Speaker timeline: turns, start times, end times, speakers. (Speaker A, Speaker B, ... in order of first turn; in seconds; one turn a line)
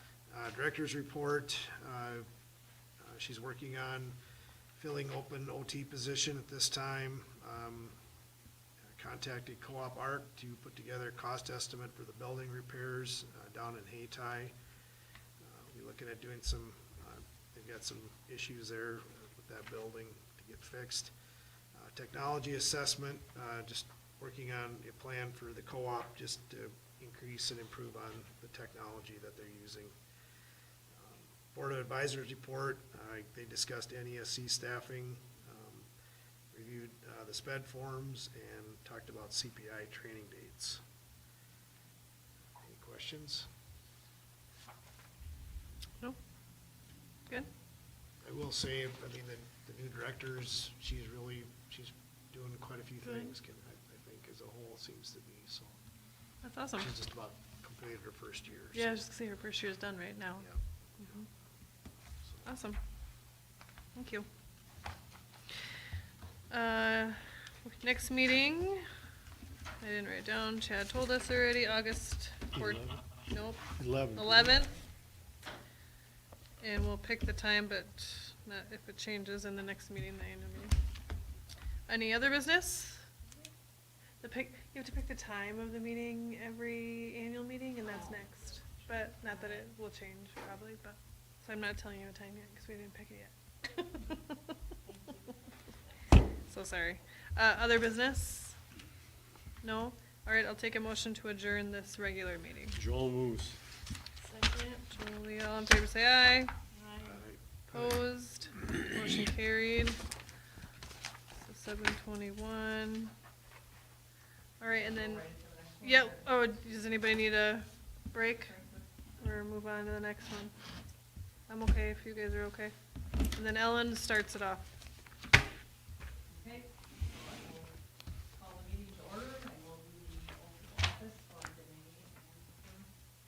Speaker A: 0.3-2.3
Speaker A: 3.0-4.2
Speaker A: 4.8-8.0
Speaker A: 8.8-14.5
Speaker A: 15.4-21.1
Speaker A: 21.7-29.9
Speaker A: 30.9-35.9
Speaker A: 36.5-40.8
Speaker A: 42.6-43.5
Speaker A: 48.2-55.8
Speaker B: 56.4-56.9
Speaker A: 56.8-59.0
Speaker B: 58.7-60.5
Speaker B: 62.5-62.8
Speaker B: 64.0-64.3
Speaker B: 66.5-68.8
Speaker B: 69.8-74.8
Speaker C: 72.5-73.2
Speaker C: 73.7-74.6
Speaker B: 76.6-80.8
Speaker B: 81.9-83.1
Speaker B: 84.2-94.5
Speaker D: 87.8-89.7
Speaker D: 94.9-95.4
Speaker B: 96.5-98.6
Speaker B: 99.6-102.8
Speaker C: 102.7-103.6
Speaker B: 104.2-107.2
Speaker A: 107.0-108.0
Speaker B: 107.7-110.0
Speaker B: 111.4-113.1
Speaker B: 114.6-115.3
Speaker D: 114.7-116.7
Speaker B: 115.8-118.5
Speaker D: 118.4-118.8
Speaker B: 119.2-120.5
Speaker B: 121.5-122.7
Speaker B: 123.3-124.7
Speaker D: 126.3-127.7
Speaker D: 128.3-132.9